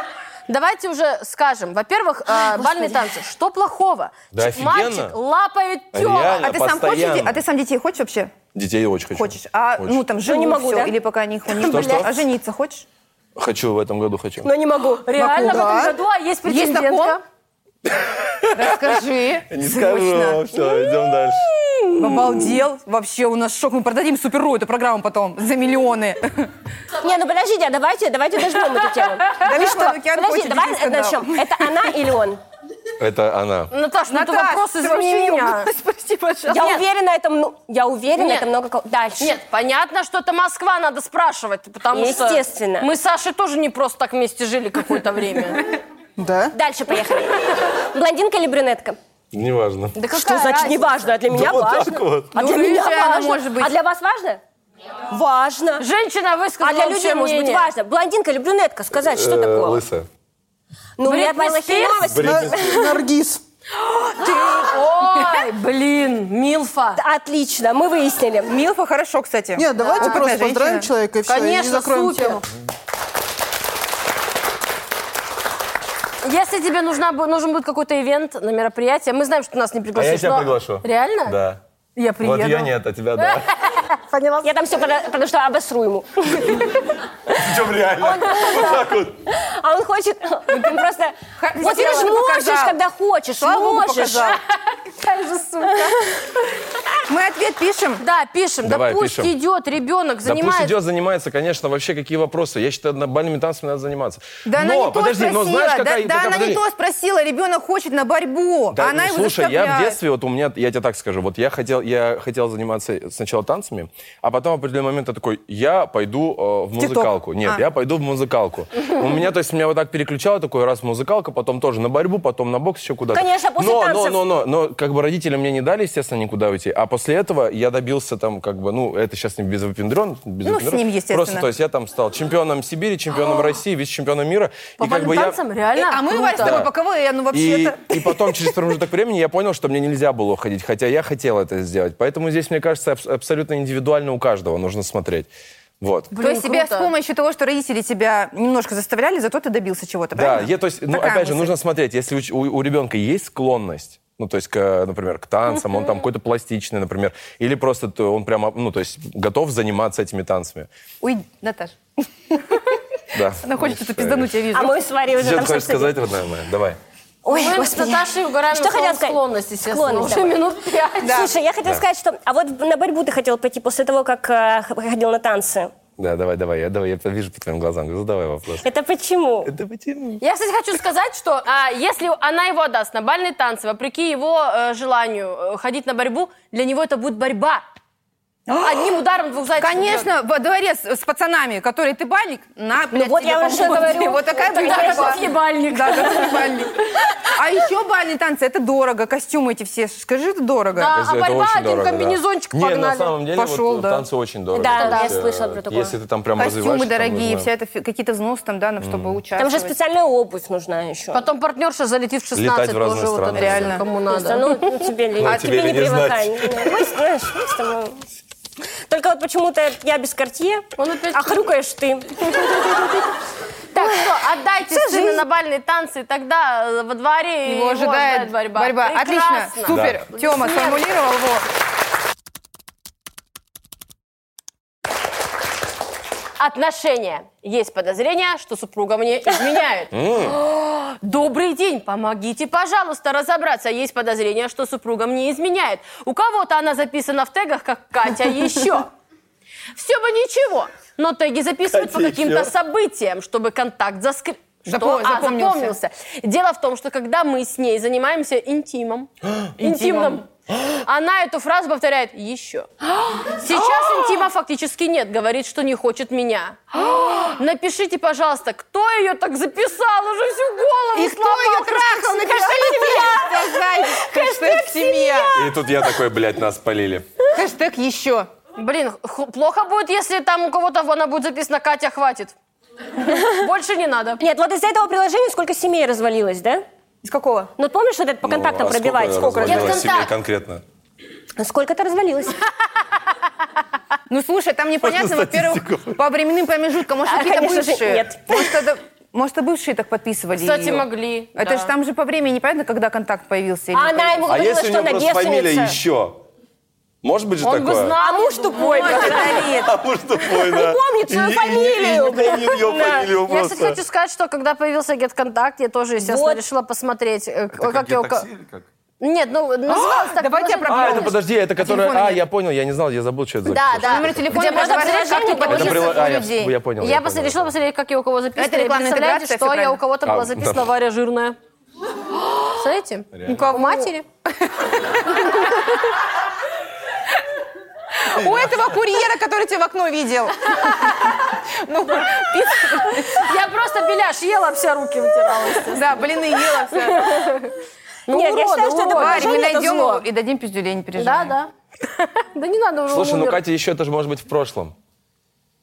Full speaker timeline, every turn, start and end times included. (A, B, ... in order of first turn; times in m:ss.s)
0:00.5-0:06.5 A
0:04.3-0:05.2 B
0:05.9-0:07.4 B
0:06.4-0:08.4 C
0:08.5-0:10.0 B
0:09.1-0:12.8 C
0:10.2-0:11.0 D
0:11.6-0:12.1 B
0:13.4-0:14.5 B
0:14.4-0:15.0 D
0:15.0-0:17.2 A
0:15.1-0:17.2 C
0:17.8-0:18.9 B
0:18.5-0:20.5 C
0:19.5-0:21.5 B
0:22.0-0:26.5 C
0:27.0-0:32.4 D
0:29.4-0:31.7 C
0:33.0-0:33.7 B
0:33.7-0:35.7 A
0:34.1-0:36.8 C
0:36.5-0:39.4 D
0:38.2-0:38.4 A
0:39.2-0:45.7 A
0:41.9-0:42.9 D
0:46.2-0:46.5 E
0:46.5-0:49.0 D
0:49.3-0:50.0 B
0:49.9-0:51.1 A
0:50.1-0:54.4 D
0:51.3-0:52.4 B
0:52.3-0:53.7 C
0:55.1-0:55.8 D
0:55.8-0:57.7 A
0:56.6-0:59.8 D
0:59.1-1:00.1 B
1:01.0-1:03.1 D
1:01.0-1:02.1 A
1:02.0-1:02.8 B
1:02.2-1:03.4 E
1:03.8-1:07.0 A
1:07.0-1:08.6 D
1:08.4-1:10.9 C
1:09.5-1:12.4 E
1:09.8-1:10.2 A
1:11.2-1:12.4 A
1:16.2-1:21.4 A
1:19.9-1:21.6 B
1:22.0-1:24.5 A
1:22.2-1:23.5 B
1:24.4-1:26.8 D
1:27.3-1:29.2 B
1:28.0-1:34.4 D
1:30.5-1:30.8 C
1:31.4-1:32.8 C
1:33.3-1:34.4 C
1:34.7-1:36.2 A
1:37.1-1:38.0 C
1:38.0-1:40.8 A
1:38.6-1:39.3 B
1:40.2-1:46.6 B
1:44.4-1:50.0 C
1:48.7-2:15.4 B
1:56.8-1:57.6 C
2:03.1-2:04.2 D
2:10.4-2:11.5 C
2:14.8-2:16.6 A
2:15.8-2:18.5 C
2:16.3-2:16.7 B
2:17.3-2:25.3 B
2:25.8-2:26.1 B
2:26.1-2:26.9 A
2:26.2-2:31.5 C
2:30.1-2:40.7 B
2:41.0-2:42.8 C
2:43.1-2:44.3 B
2:43.4-2:44.8 C
2:44.5-2:46.0 D
2:45.1-2:46.8 B
2:47.2-2:50.4 D
2:47.2-2:51.3 A
2:51.0-2:55.7 D
2:51.0-2:51.3 C
2:56.0-2:58.6 B
2:58.6-2:59.5 D
2:59.4-3:00.2 B
3:00.2-3:07.6 A
3:08.5-3:08.9 C
3:08.5-3:10.1 A
3:09.6-3:16.7 C
3:12.9-3:15.3 D
3:13.6-3:16.6 A
3:17.3-3:20.9 C
3:20.7-3:23.2 A
3:20.9-3:27.5 B
3:23.3-3:24.0 C
3:24.5-3:26.0 D
3:24.6-3:25.1 A
3:26.4-3:29.7 C
3:28.8-3:29.2 B
3:29.4-3:31.2 D
3:31.1-3:34.6 A
3:32.3-3:33.8 B
3:33.3-3:33.8 C
3:34.1-3:38.0 D
3:35.2-3:36.8 B
3:35.2-3:35.5 C
3:38.8-3:43.1 D
3:40.8-3:41.4 A
3:43.7-3:50.8 A
3:43.8-3:44.1 D
3:44.7-3:45.2 D
3:47.4-3:51.4 C
3:49.7-3:50.0 B
3:56.4-4:08.9 A
3:59.9-4:00.4 B
4:09.7-4:22.7 A
4:11.7-4:12.5 B
4:14.6-4:15.8 C
4:19.2-4:19.5 B
4:19.6-4:20.2 C
4:22.9-4:24.3 C
4:23.4-4:33.2 A
4:26.8-4:27.4 C
4:30.9-4:35.4 C
4:32.3-4:35.3 D
4:35.3-4:37.1 B
4:37.3-4:38.3 C
4:38.6-4:42.3 A
4:43.1-4:44.2 A
4:44.2-4:46.6 D
4:47.0-4:47.5 C
4:47.6-4:49.9 D
4:48.2-4:50.6 B
4:49.4-4:50.1 A
4:51.4-4:52.4 D
4:54.1-5:04.2 C
4:54.8-4:56.0 B
4:57.0-4:58.6 D
5:00.4-5:01.7 A
5:03.7-5:05.8 D
5:04.2-5:06.2 B
5:07.0-5:08.0 B
5:07.4-5:09.4 A
5:08.0-5:09.5 D
5:08.5-5:09.7 C
5:09.6-5:13.8 B
5:10.2-5:13.1 D
5:12.7-5:18.3 A
5:16.0-5:16.4 D
5:17.5-5:18.6 B
5:19.0-5:21.1 A
5:19.7-5:22.2 C
5:20.7-5:24.2 B
5:23.4-5:25.5 A
5:23.8-5:26.5 C
5:24.3-5:26.0 D
5:25.4-5:27.5 B
5:26.8-5:31.4 A
5:28.4-5:29.8 C
5:30.0-5:30.7 B
5:32.5-5:34.0 A
5:33.1-5:33.4 B
5:33.2-5:35.5 C
5:35.0-5:36.0 A
5:37.9-5:43.3 C
5:38.1-5:38.7 B
5:40.5-5:41.2 A
5:42.7-5:46.0 A
5:45.6-5:47.0 C
5:46.7-5:47.5 A
5:48.1-5:49.4 A
5:48.1-5:50.0 D
5:48.9-5:51.3 C
5:51.0-5:53.4 A
5:52.9-5:54.7 B